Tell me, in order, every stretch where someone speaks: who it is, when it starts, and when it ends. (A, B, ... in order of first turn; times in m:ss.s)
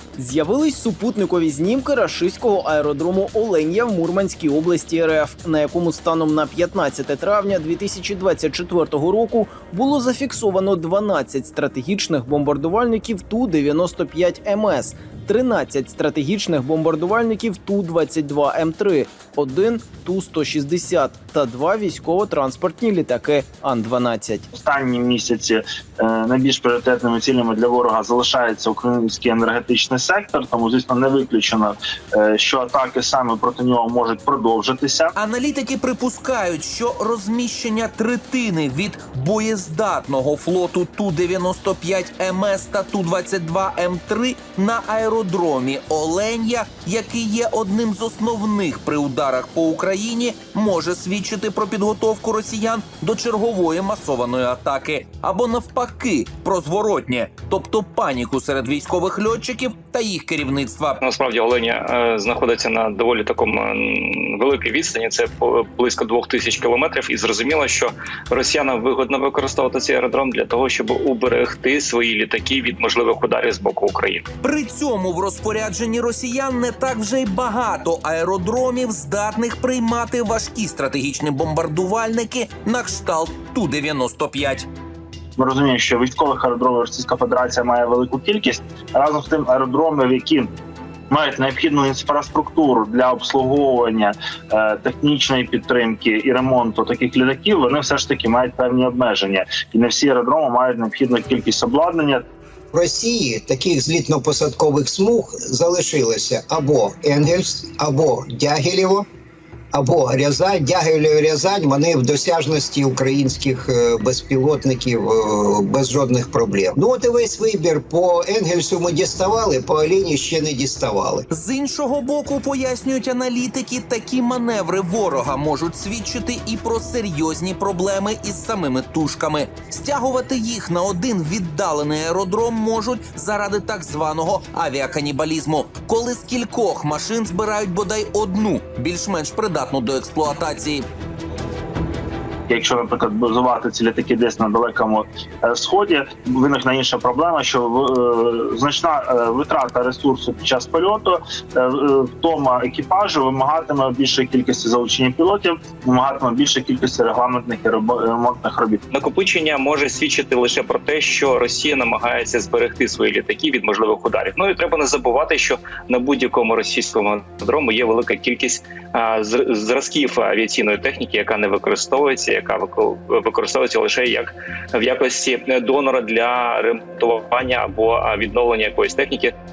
0:00.2-0:24.5 A
0:24.5-0:35.1 B
0:35.2-1:01.0 C
1:01.0-1:14.2 D
1:14.4-1:24.7 C
1:25.4-1:30.5 B
1:31.1-1:42.2 B
1:42.7-1:49.0 E
1:49.7-2:01.2 E
2:01.3-2:20.8 C
2:22.5-2:38.8 B
2:38.9-2:59.3 D